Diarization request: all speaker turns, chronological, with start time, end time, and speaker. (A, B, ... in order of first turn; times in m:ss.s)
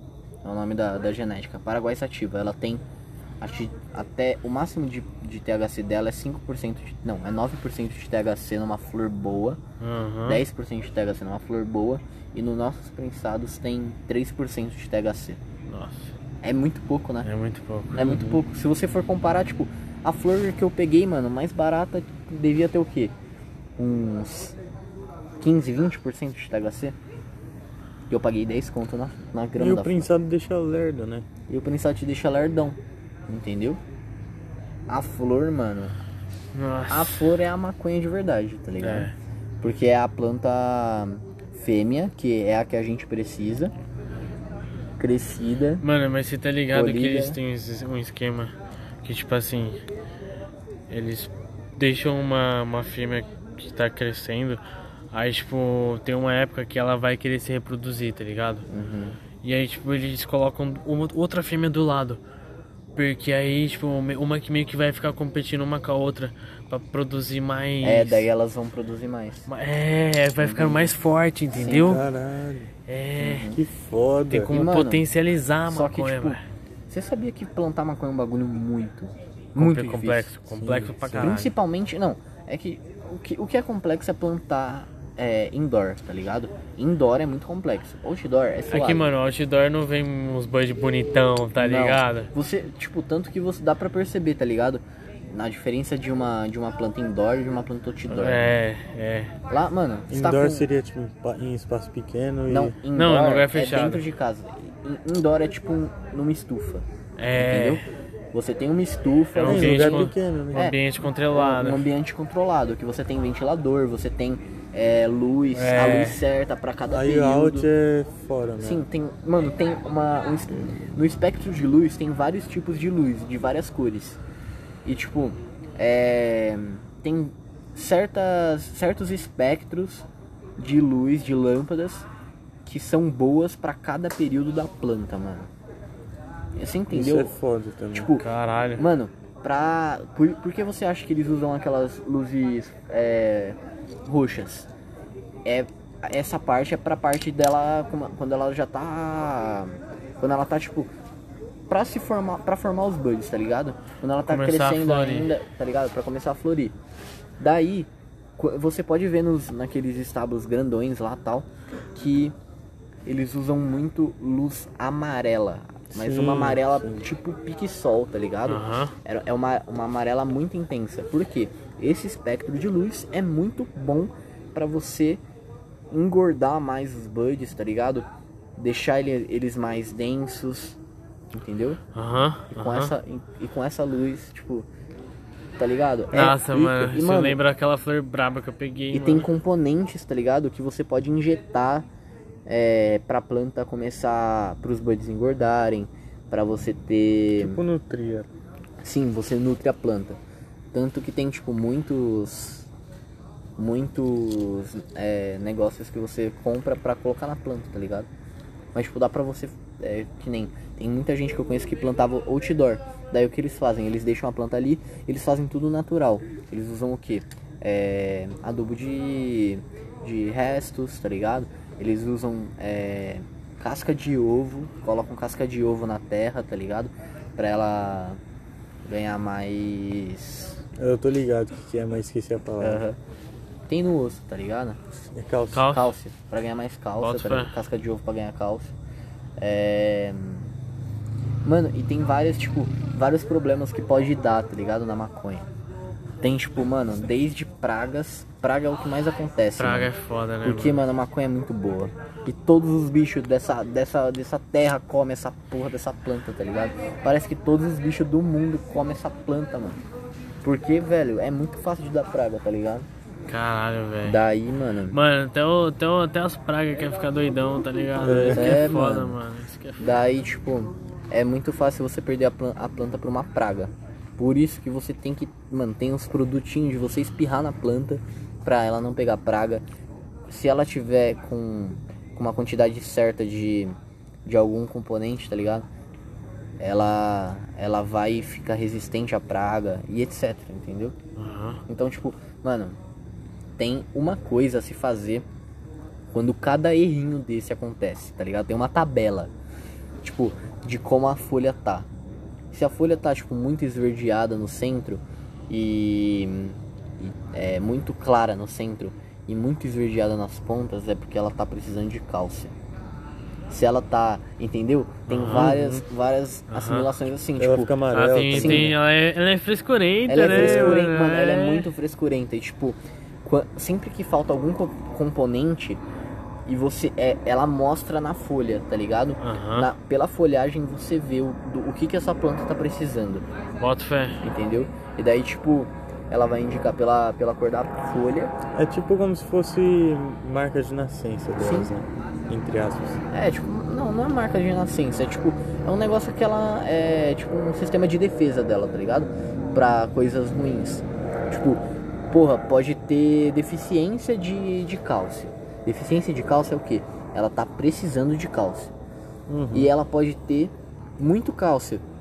0:00.4-0:02.8 A
0:03.4-0:09.6 A
0:09.8-0:10.4 B
0:10.2-0:15.4 A
0:15.7-0:16.1 B
0:16.4-0:17.3 A
0:17.2-0:18.4 B
0:17.9-0:23.1 A
0:23.8-0:24.6 A
0:25.4-0:26.9 A
0:28.1-0:30.1 A
0:29.6-0:31.2 C
0:31.5-0:32.8 A
0:33.3-0:33.8 A
0:34.9-0:35.9 A
0:36.5-0:37.3 B
0:36.9-0:39.1 A
0:38.8-0:39.1 B
0:39.6-0:43.7 A
0:45.0-0:45.8 A
0:45.8-0:49.8 B
0:46.7-0:47.4 A
0:50.9-0:54.6 B
0:55.1-0:58.7 B
0:58.7-0:59.2 A
0:59.4-1:02.2 B
1:03.0-1:08.2 B
1:07.8-1:09.5 A
1:09.5-1:12.0 B
1:10.4-1:10.9 A
1:11.5-1:12.0 A
1:11.6-1:12.7 C
1:12.9-1:13.5 B
1:13.2-1:13.6 A
1:13.4-1:14.5 C
1:14.3-1:16.4 B
1:14.5-1:15.0 A
1:15.7-1:16.4 A
1:16.9-1:20.3 A
1:19.6-1:21.5 B
1:20.5-1:21.4 C
1:21.2-1:29.1 A
1:28.7-1:32.3 B
1:31.6-1:38.6 A
1:38.1-1:39.3 B
1:39.5-1:40.7 A
1:40.1-1:42.8 C
1:42.5-1:46.8 A
1:42.9-1:44.0 B
1:47.2-1:47.8 B
1:47.4-1:57.7 A
1:49.4-1:51.9 B
1:49.4-1:50.7 C
1:55.5-1:56.2 B
1:56.9-1:58.8 C
1:58.6-2:04.2 A
2:04.8-2:10.0 A
2:10.6-2:12.0 A
2:12.6-2:15.5 A
2:16.6-2:17.3 A
2:16.9-2:18.1 C
2:17.9-2:24.7 A
2:18.2-2:18.8 B
2:25.4-2:30.9 A
2:31.7-2:36.7 A
2:34.3-2:35.3 B
2:37.4-2:42.3 A
2:43.0-2:55.2 A
2:45.9-2:47.1 C
2:48.5-2:48.9 B
2:55.9-3:00.8 A
3:01.3-3:01.8 A
3:01.9-3:02.9 B
3:02.5-3:04.7 A
3:05.6-3:07.4 A
3:06.1-3:09.3 B
3:08.9-3:11.9 A
3:12.4-3:17.6 A
3:17.4-3:18.3 C
3:18.8-3:20.2 A
3:20.7-3:22.7 A
3:23.6-3:28.1 A
3:28.7-3:48.2 A
3:48.8-3:50.6 A
3:50.8-3:52.8 C
3:52.6-3:53.0 A
3:53.7-3:54.8 A
3:55.1-3:55.7 C
3:55.5-3:55.9 B
3:55.7-3:58.7 A
3:57.0-3:57.6 B
3:59.4-4:00.5 A
4:01.4-4:05.5 A
4:06.2-4:09.9 A
4:09.6-4:10.8 B
4:10.4-4:19.8 A
4:20.4-4:22.9 A
4:23.2-4:24.2 B
4:24.0-4:25.0 A
4:24.9-4:30.0 B
4:28.0-4:28.6 C
4:28.3-4:29.2 A
4:29.8-4:39.6 A
4:40.3-4:45.7 A
4:46.6-4:50.9 A
4:51.2-4:51.6 B
4:51.7-4:52.8 A
4:53.6-4:55.2 A
4:56.1-4:59.3 A
5:00.0-5:01.9 A
5:02.5-5:12.5 A
5:13.5-5:18.7 A
5:15.1-5:15.8 B
5:15.3-5:15.6 C
5:16.5-5:16.9 B
5:17.4-5:18.8 C
5:17.9-5:21.6 B
5:20.1-5:25.8 A
5:20.2-5:20.8 C
5:26.4-5:33.2 A
5:29.2-5:29.7 B
5:33.6-5:34.2 B
5:34.2-5:38.3 A
5:38.5-5:43.0 C
5:41.3-5:41.7 A
5:43.1-5:58.7 A
5:59.3-5:59.7 C
5:59.5-6:01.8 A